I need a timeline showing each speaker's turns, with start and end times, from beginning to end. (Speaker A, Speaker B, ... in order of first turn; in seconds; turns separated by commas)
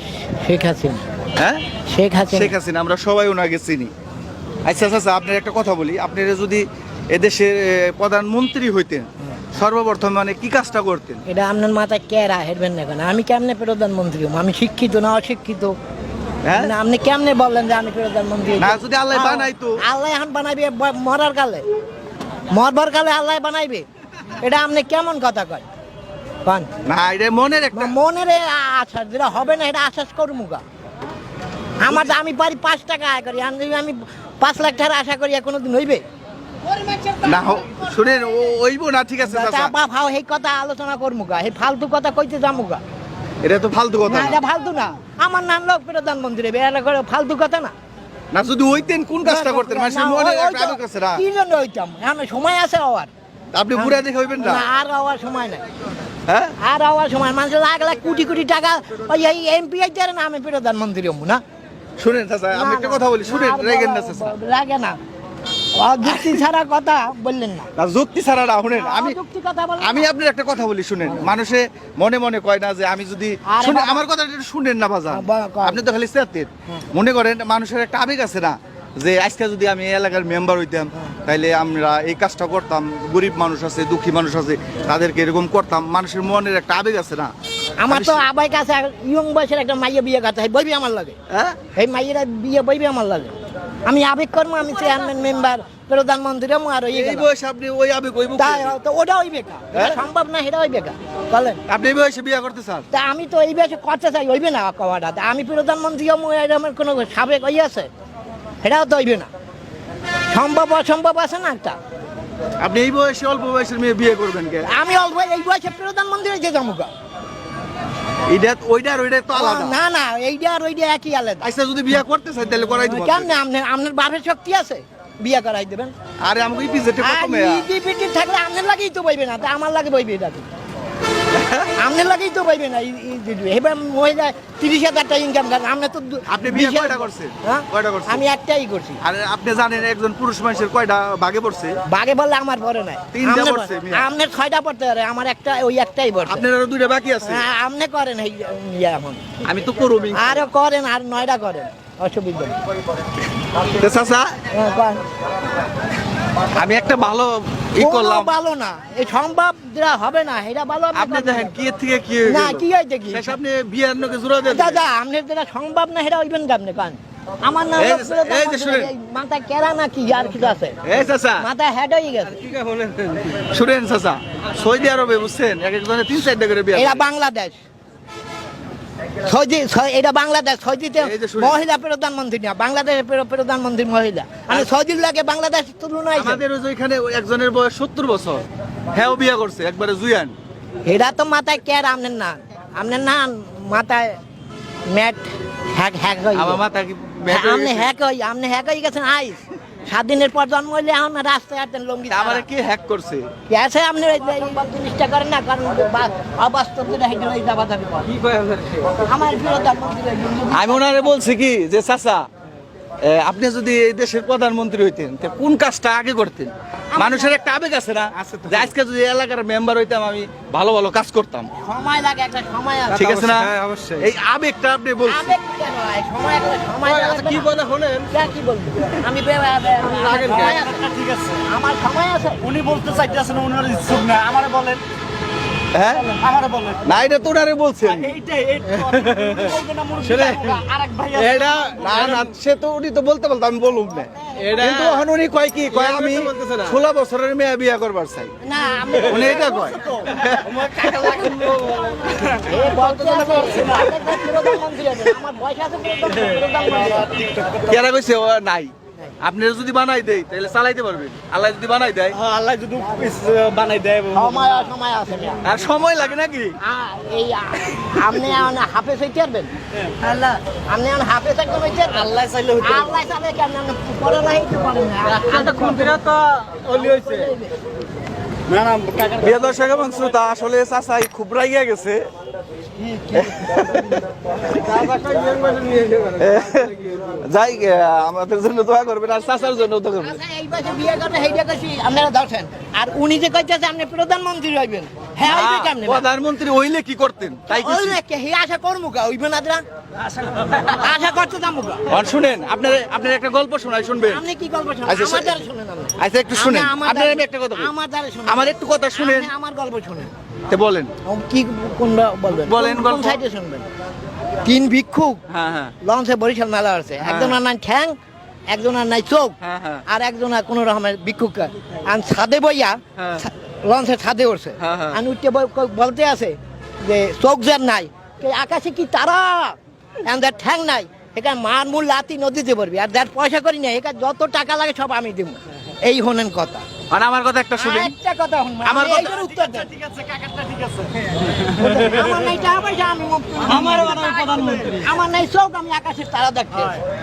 Speaker A: 0.4-1.0, Speaker B: 1.4-1.6, Speaker A: 1.9-2.5, Speaker B: 2.3-3.9, Speaker B: 4.6-11.2, Speaker A: 11.3-15.8, Speaker B: 16.4-16.7, Speaker A: 16.6-21.6, Speaker B: 18.6-19.8, Speaker A: 22.5-23.9, Speaker A: 24.4-25.6, Speaker B: 26.9-27.9, Speaker A: 27.7-30.6, Speaker A: 31.8-36.0, Speaker A: 36.6-37.7, Speaker B: 37.2-39.7, Speaker A: 39.2-42.8, Speaker B: 43.4-44.4, Speaker A: 44.1-47.7, Speaker B: 48.3-51.2, Speaker A: 49.2-53.1, Speaker B: 53.5-54.6, Speaker A: 53.7-55.6, Speaker B: 56.3-56.5, Speaker A: 56.6-61.4, Speaker B: 62.0-64.3, Speaker A: 62.5-65.0, Speaker A: 65.8-67.7, Speaker B: 66.1-66.4, Speaker B: 67.8-69.2, Speaker A: 68.7-70.1, Speaker B: 69.8-87.3, Speaker A: 73.5-74.0, Speaker A: 75.1-75.8, Speaker A: 87.8-91.2, Speaker B: 87.9-88.2, Speaker B: 91.3-91.6, Speaker A: 91.7-93.3, Speaker A: 93.8-97.3, Speaker B: 96.9-98.7, Speaker A: 98.4-101.6, Speaker B: 101.7-102.9, Speaker A: 102.9-107.9, Speaker A: 108.6-109.3, Speaker A: 110.3-111.8, Speaker B: 112.6-114.7, Speaker A: 114.7-116.9, Speaker B: 118.3-119.8, Speaker A: 119.3-121.5, Speaker B: 121.4-123.3, Speaker A: 122.6-125.9, Speaker B: 126.2-127.7, Speaker A: 127.0-130.5, Speaker B: 131.3-131.7, Speaker A: 131.8-139.0, Speaker B: 136.3-138.2, Speaker B: 139.0-141.8, Speaker A: 141.9-146.4, Speaker B: 143.1-144.1, Speaker B: 146.2-147.4, Speaker A: 147.2-149.2, Speaker B: 149.4-150.5, Speaker A: 150.1-152.6, Speaker B: 153.8-154.3, Speaker A: 154.5-155.0, Speaker B: 156.5-158.3, Speaker A: 157.8-161.5, Speaker B: 160.9-164.8, Speaker A: 162.2-163.3, Speaker A: 164.4-170.8, Speaker B: 167.8-168.9, Speaker B: 170.8-171.5, Speaker A: 171.4-172.4, Speaker C: 172.5-173.3, Speaker B: 173.5-177.0, Speaker A: 176.7-177.6, Speaker A: 179.2-186.4, Speaker B: 181.0-181.6, Speaker B: 186.2-190.3, Speaker A: 190.8-194.2, Speaker A: 194.9-196.6, Speaker B: 196.3-197.9, Speaker A: 197.3-202.4, Speaker B: 202.1-203.3, Speaker A: 203.5-208.2, Speaker C: 208.2-208.8, Speaker A: 208.9-211.2, Speaker B: 210.5-212.3, Speaker B: 213.0-221.5, Speaker A: 216.9-217.3, Speaker C: 218.2-218.7, Speaker A: 221.6-223.1, Speaker B: 222.9-225.3, Speaker C: 223.0-224.1, Speaker A: 225.0-227.6, Speaker C: 226.9-228.1, Speaker A: 228.1-232.5, Speaker C: 230.0-231.4, Speaker C: 232.4-234.8, Speaker B: 235.7-236.2, Speaker C: 236.2-236.8, Speaker B: 236.8-238.2, Speaker C: 238.0-242.3, Speaker A: 239.5-240.7, Speaker B: 241.8-248.3, Speaker C: 244.3-245.0, Speaker C: 245.7-246.8, Speaker A: 248.4-251.4, Speaker B: 249.0-251.6, Speaker C: 250.3-253.9, Speaker A: 252.3-257.4, Speaker B: 257.6-262.2, Speaker C: 262.1-264.5, Speaker A: 262.8-263.1, Speaker A: 264.1-265.4, Speaker B: 265.4-266.6, Speaker A: 266.6-269.5, Speaker C: 269.8-270.4, Speaker A: 270.7-277.5, Speaker C: 272.0-272.9, Speaker C: 275.4-277.1, Speaker C: 278.5-279.3, Speaker B: 279.2-282.0, Speaker B: 283.1-284.9, Speaker C: 284.6-286.2, Speaker B: 286.1-290.2, Speaker A: 290.0-296.1, Speaker B: 295.2-298.0, Speaker A: 297.5-299.6, Speaker A: 300.6-301.9, Speaker B: 301.9-304.2, Speaker A: 304.1-310.1, Speaker B: 304.9-305.4, Speaker B: 306.0-307.7, Speaker B: 308.3-309.3, Speaker B: 310.5-310.9, Speaker A: 311.0-313.6, Speaker B: 312.4-313.2, Speaker A: 314.4-315.2, Speaker B: 315.3-315.7, Speaker A: 315.8-317.9, Speaker B: 317.0-317.4, Speaker A: 318.5-319.4, Speaker B: 319.4-319.8, Speaker A: 319.9-336.6, Speaker B: 323.0-323.2, Speaker B: 324.6-325.0, Speaker B: 336.9-337.9, Speaker A: 337.6-339.7, Speaker B: 338.6-339.4, Speaker C: 339.7-341.1, Speaker A: 341.5-346.8, Speaker C: 343.4-344.9